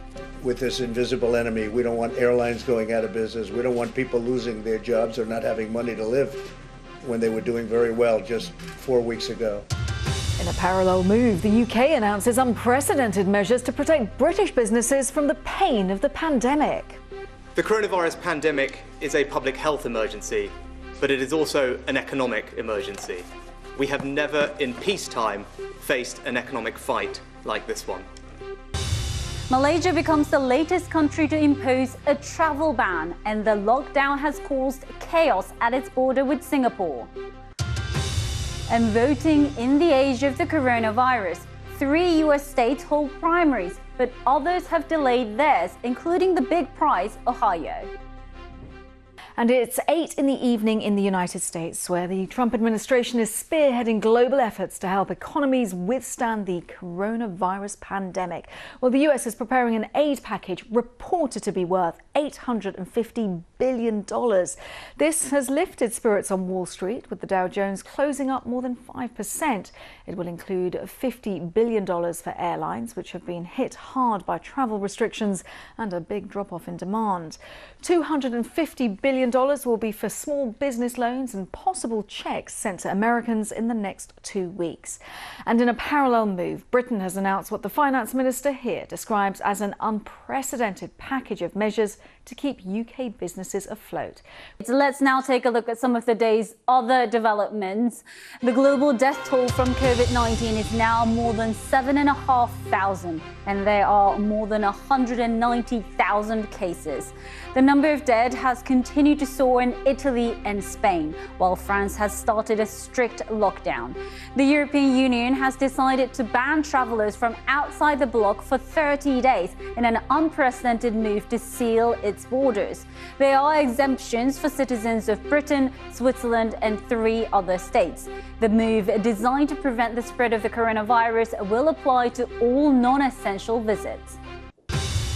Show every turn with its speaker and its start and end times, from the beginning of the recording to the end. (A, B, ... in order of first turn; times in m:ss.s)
0:00.4-0:06.5 A
0:07.0-0:09.6 A
0:10.4-0:17.0 B
0:17.6-0:28.1 C
0:29.5-0:37.1 D
0:38.7-0:47.9 D
0:49.4-1:34.2 B
1:34.6-2:14.2 D